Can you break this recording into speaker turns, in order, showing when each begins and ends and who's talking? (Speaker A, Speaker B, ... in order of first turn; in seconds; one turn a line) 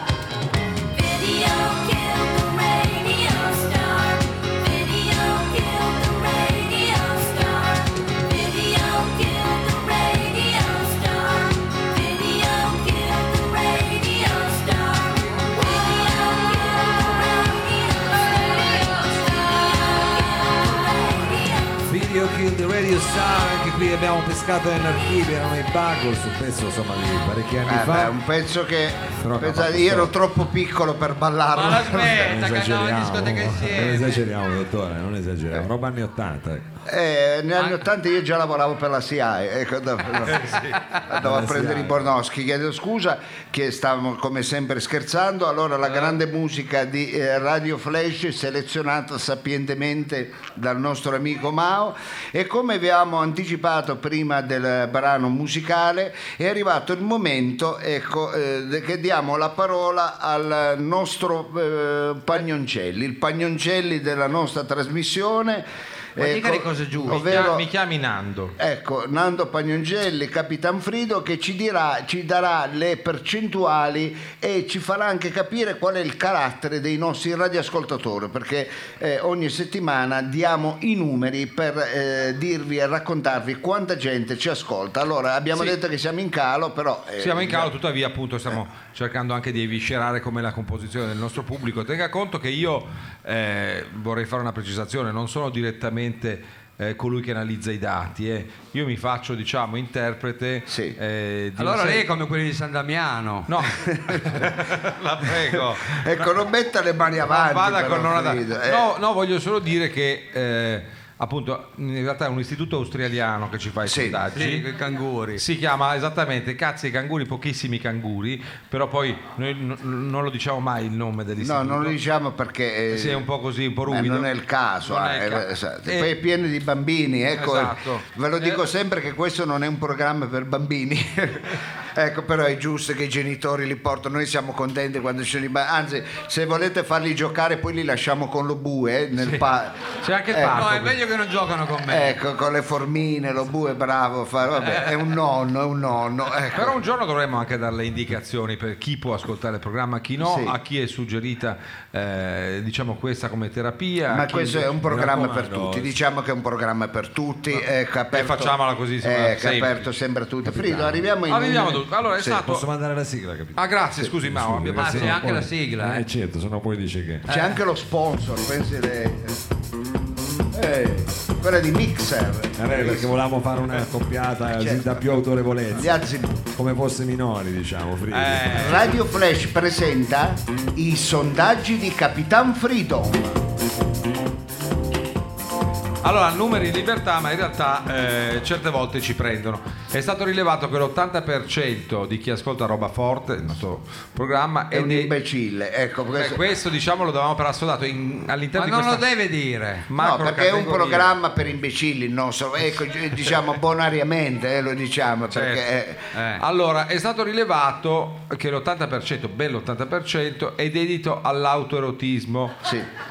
Speaker A: 0.9-21.8
Speaker B: 21.9-28.1
Speaker C: 27.6-32.3
Speaker B: 29.2-30.1
Speaker D: 31.5-34.2
Speaker B: 32.1-36.7
Speaker C: 36.9-67.7
Speaker E: 40.3-40.8
Speaker B: 41.2-42.1
Speaker D: 66.2-67.2
Speaker E: 67.1-68.5
Speaker C: 68.6-87.7
Speaker E: 87.2-102.0
Speaker C: 100.7-101.0
Speaker D: 101.6-103.5
Speaker E: 103.5-106.3
Speaker C: 103.8-104.5
Speaker C: 105.2-108.9
Speaker E: 107.3-114.7
Speaker C: 113.8-114.2
Speaker D: 114.3-115.4
Speaker E: 115.4-122.0
Speaker C: 121.4-123.3
Speaker E: 122.9-124.3
Speaker C: 123.9-140.6
Speaker E: 124.8-126.1
Speaker E: 127.3-128.6
Speaker E: 140.0-141.0
Speaker D: 140.4-142.2
Speaker C: 141.8-146.8
Speaker D: 144.6-144.9
Speaker E: 146.5-154.8
Speaker C: 150.2-150.6
Speaker C: 154.1-162.4
Speaker B: 154.8-155.9
Speaker E: 158.1-159.9
Speaker B: 160.4-161.0
Speaker E: 161.3-162.7
Speaker B: 162.4-163.6
Speaker E: 163.5-165.2
Speaker B: 164.2-167.2
Speaker D: 164.8-166.0
Speaker D: 167.3-167.6
Speaker C: 167.3-169.4
Speaker C: 170.5-173.1
Speaker B: 172.6-175.9
Speaker C: 174.6-175.1
Speaker C: 175.7-176.4
Speaker B: 176.5-178.7
Speaker E: 178.1-179.0
Speaker C: 178.5-183.3
Speaker E: 186.0-195.1
Speaker C: 194.7-196.4
Speaker E: 196.1-199.0
Speaker D: 198.5-199.9
Speaker E: 199.9-201.1
Speaker C: 200.0-206.1
Speaker E: 205.3-205.6
Speaker D: 206.1-206.4
Speaker E: 206.4-212.6
Speaker C: 212.6-212.9